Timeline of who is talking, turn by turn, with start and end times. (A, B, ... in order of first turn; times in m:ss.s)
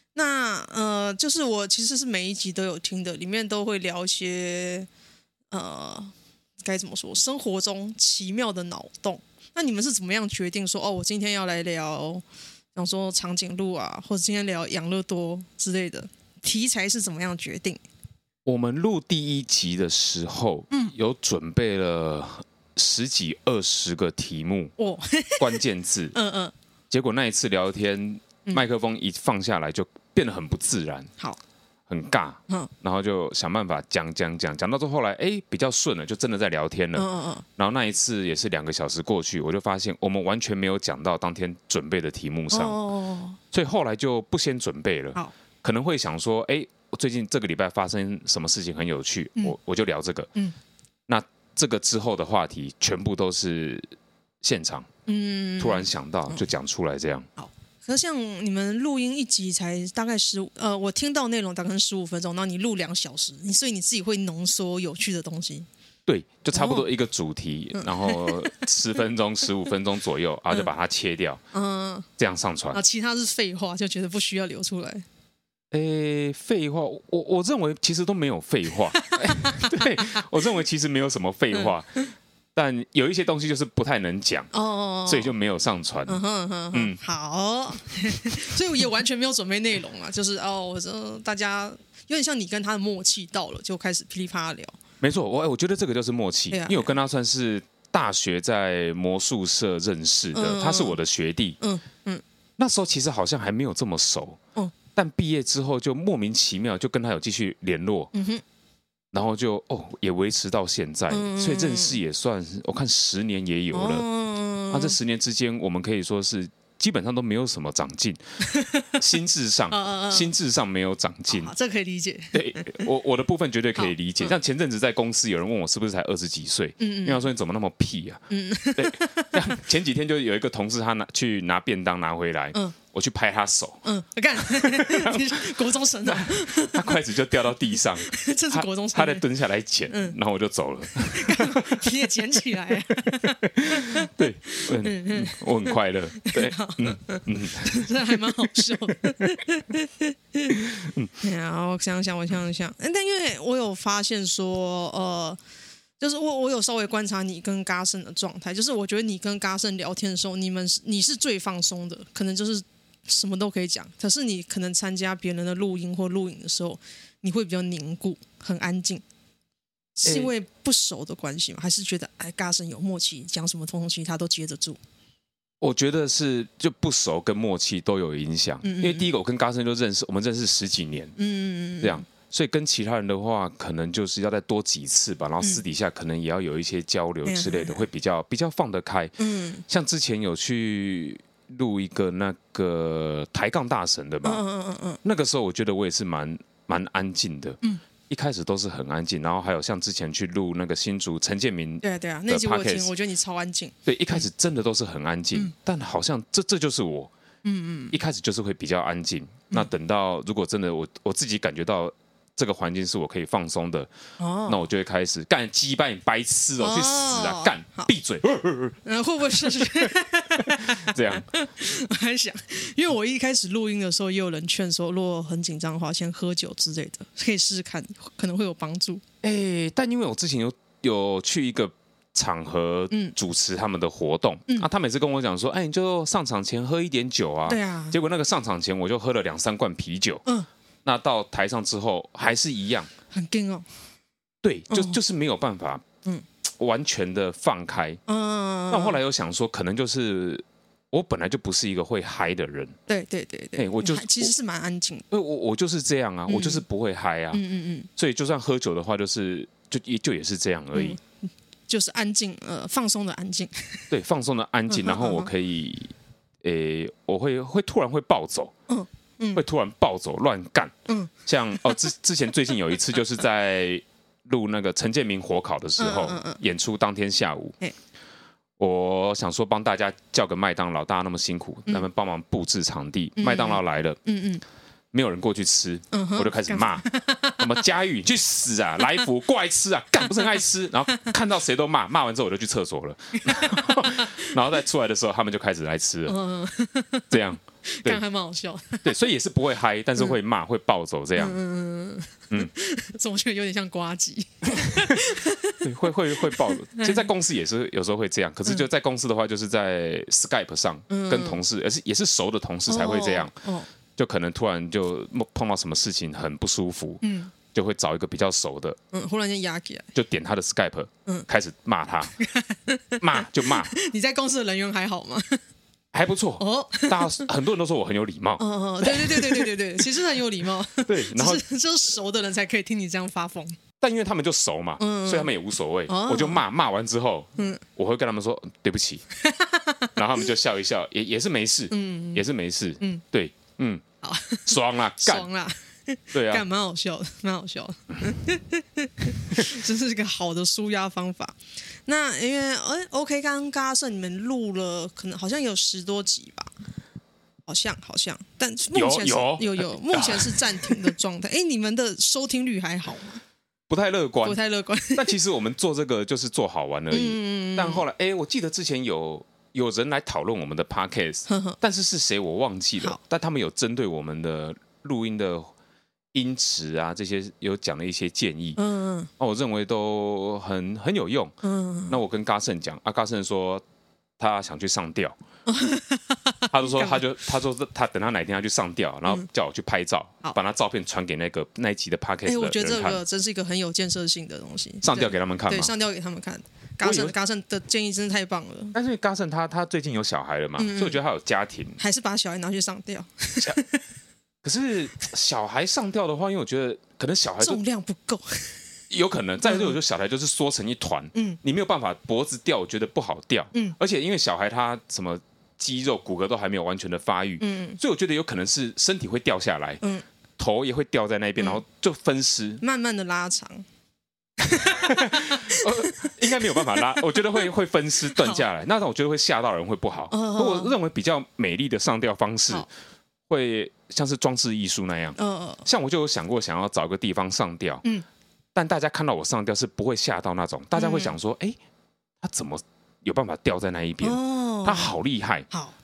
0:00.2-0:04.9 A
0:05.5-0:06.1 A
0:06.6-0:12.2 A
0:12.8-0:17.8 A
0:18.5-0:24.7 B
0:20.7-0:21.0 A
0:24.8-0:25.6 A
0:25.4-0:26.2 B
0:26.1-0:26.5 A
0:26.9-0:31.1 B
0:31.9-0:42.8 B
0:36.9-0:37.4 A
0:42.5-0:43.4 A
0:43.5-0:50.3 B
0:51.1-0:53.9 B
0:54.4-0:54.9 B
0:55.1-0:56.4 A
0:55.6-0:57.3 B
0:57.4-1:05.7 A
1:06.1-1:11.4 B
1:06.5-1:06.9 A
1:07.7-1:08.6 A
1:11.5-1:12.1 A
1:12.2-1:12.8 B
1:12.7-1:15.0 A
1:15.7-1:24.5 B
1:18.9-1:20.2 A
1:21.5-1:22.0 A
1:24.5-1:25.4 A
1:25.1-1:26.2 B
1:26.1-1:34.8 A
1:26.7-1:27.0 B
1:35.0-1:41.6 B
1:36.5-1:37.0 A
1:40.3-1:41.0 A
1:41.6-1:42.2 A
1:42.6-1:44.4 B
1:45.0-1:48.1 B
1:48.1-1:48.4 A
1:49.1-1:54.0 B
1:51.1-1:52.0 A
1:53.7-1:55.0 A
1:54.7-1:58.2 B
1:58.4-1:59.0 A
1:59.0-2:01.5 B
1:59.7-2:00.3 A
2:01.3-2:02.9 A
2:02.3-2:08.2 B
2:03.8-2:04.4 A
2:06.8-2:07.3 A
2:08.3-2:09.6 A
2:08.8-2:13.8 B
2:13.8-2:17.0 A
2:14.4-2:15.4 B
2:16.0-2:21.9 B
2:18.1-2:19.3 A
2:19.9-2:20.2 A
2:21.1-2:30.7 A
2:23.2-2:28.2 B
2:30.5-2:31.1 B
2:31.2-2:35.4 A
2:36.0-2:49.0 A
2:50.0-2:54.8 A
2:50.0-2:50.3 B
2:55.6-3:01.1 B
2:58.6-2:59.1 A
3:01.2-3:02.0 A
3:01.8-3:09.2 B
3:07.3-3:07.8 A
3:09.2-3:09.6 A
3:09.7-3:14.4 B
3:14.2-3:15.0 A
3:15.0-3:17.6 B
3:18.1-3:22.9 B
3:21.8-3:24.2 A
3:23.9-3:27.1 B
3:27.4-3:28.0 A
3:27.9-3:33.9 B
3:34.2-3:34.6 A
3:34.5-3:38.8 B
3:36.6-3:37.9 A
3:38.8-3:49.0 A
3:39.3-3:41.3 B
3:49.2-4:00.2 B
3:57.5-3:58.0 A
4:00.8-4:02.9 B
4:03.1-4:03.7 A
4:04.4-4:05.8 B
4:04.7-4:05.0 A
4:06.6-4:08.0 B
4:08.1-4:09.0 A
4:08.7-4:12.8 B
4:12.9-4:15.1 A
4:13.6-4:14.3 B
4:15.1-4:17.4 B
4:16.3-4:16.6 A
4:17.3-4:17.9 A
4:18.0-4:21.0 B
4:20.7-4:21.0 A
4:21.7-4:23.9 A
4:23.9-4:28.5 B
4:24.7-4:25.3 A
4:28.7-4:29.4 A
4:29.4-4:30.7 B
4:30.9-4:31.8 A
4:31.3-4:37.5 B
4:35.8-4:36.4 A
4:38.6-4:44.0 B
4:43.2-4:44.4 A
4:44.9-4:46.9 B
4:45.9-4:47.5 A
4:47.4-4:56.2 B
4:53.1-4:54.4 A
4:56.1-4:57.1 A
4:57.1-4:58.0 B
4:57.7-4:59.0 A
4:58.8-5:01.4 B
5:01.2-5:07.1 A
5:04.6-5:05.0 B
5:05.6-5:13.3 B
5:10.9-5:11.4 A
5:12.7-5:13.7 A
5:14.0-5:17.0 B
5:17.0-5:17.3 A
5:17.5-5:18.8 B
5:18.9-5:19.9 A
5:19.9-5:22.2 B
5:22.2-5:25.4 A
5:23.0-5:23.7 B
5:25.9-5:30.0 B
5:26.4-5:27.3 A
5:28.4-5:33.6 A
5:30.8-5:31.4 B
5:33.8-5:39.0 B
5:34.8-5:35.3 A
5:35.9-5:36.4 A
5:39.2-5:39.9 A
5:40.0-5:43.8 B
5:41.7-5:42.2 A
5:44.0-5:56.5 A
5:44.5-5:45.3 B
5:46.1-5:46.4 B
5:57.5-6:03.2 A
5:58.7-6:00.9 B
6:03.7-6:04.4 B
6:04.2-6:05.2 A
6:04.9-6:15.5 B
6:06.9-6:07.8 A
6:11.3-6:11.6 A
6:16.1-6:18.6 B
6:18.6-6:19.1 A
6:19.2-6:21.4 B
6:21.4-6:22.0 A
6:21.9-6:23.6 B
6:24.2-6:25.2 B
6:25.5-6:27.0 A
6:26.5-6:33.0 B
6:32.3-6:38.8 A
6:34.8-6:35.7 B
6:36.8-6:37.1 B
6:38.7-6:41.8 B
6:40.6-6:41.0 A
6:41.8-6:43.8 A
6:44.4-6:47.6 B
6:47.4-6:48.6 A
6:48.9-6:59.8 B
6:49.4-6:49.8 A
6:57.4-6:57.8 A
7:00.4-7:02.6 B
7:02.6-7:03.6 A
7:04.4-7:07.5 A
7:04.8-7:12.7 B
7:08.1-7:08.4 A
7:10.1-7:10.7 A
7:13.3-7:17.8 B
7:15.2-7:15.6 A
7:18.6-7:21.6 B
7:20.8-7:21.2 A
7:22.2-7:25.5 B
7:24.0-7:24.9 A
7:25.5-7:25.8 A